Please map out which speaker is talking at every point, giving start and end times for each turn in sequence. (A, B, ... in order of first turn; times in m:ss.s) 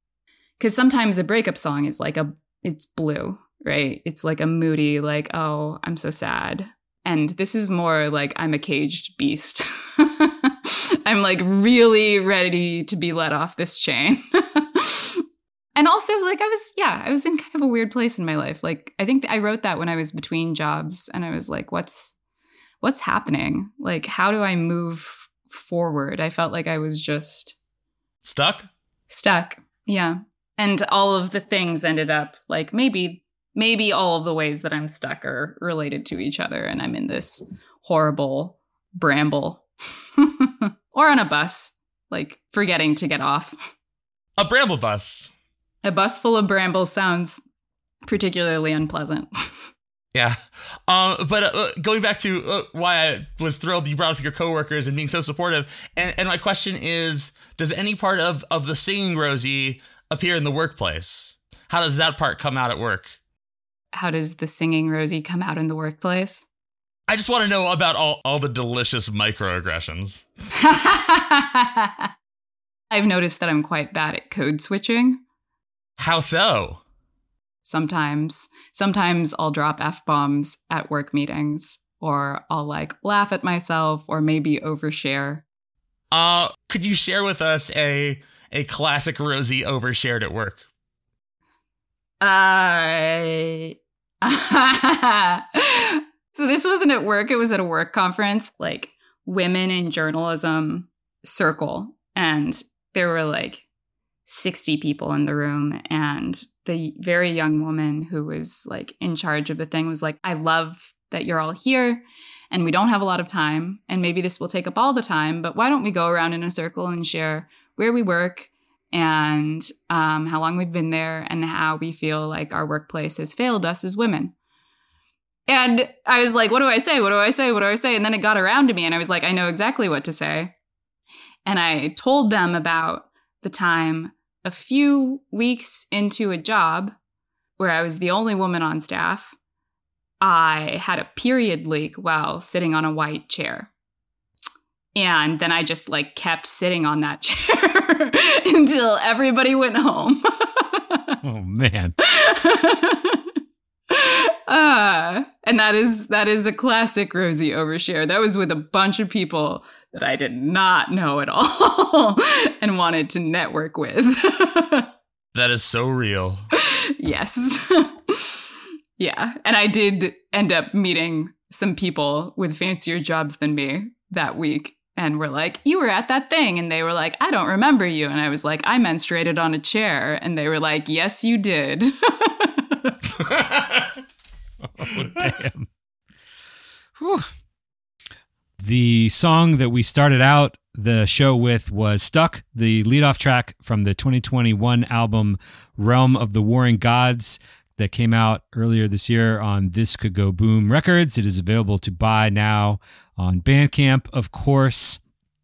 0:00.6-0:15.2 A
0:15.8-0:22.2 A
0:22.8-0:27.6 A
0:28.2-0:28.7 B
0:29.1-0:39.6 A
0:40.2-0:43.6 A
0:44.4-0:45.3 B
0:45.8-0:47.4 A
0:48.1-0:49.3 A
0:50.1-1:03.2 B
1:03.9-1:06.5 A
1:07.1-1:10.2 B
1:10.6-1:12.1 A
1:12.9-1:15.2 A
1:16.0-1:16.8 B
1:17.6-1:25.4 A
1:26.1-1:30.6 B
1:32.2-1:43.6 A
1:44.2-2:04.3 A
2:05.5-2:10.5 A
2:11.5-2:17.0 A
2:17.6-2:19.4 A
2:20.2-2:23.7 A
2:25.0-2:31.2 A
2:31.2-2:32.0 C
2:32.0-2:33.3 A
2:33.9-2:44.9 A
2:45.3-2:46.5 B
2:46.6-3:02.9 A
3:03.3-3:03.9 B
3:04.8-3:05.7 C
3:07.0-3:07.3 C
3:08.6-3:25.0 C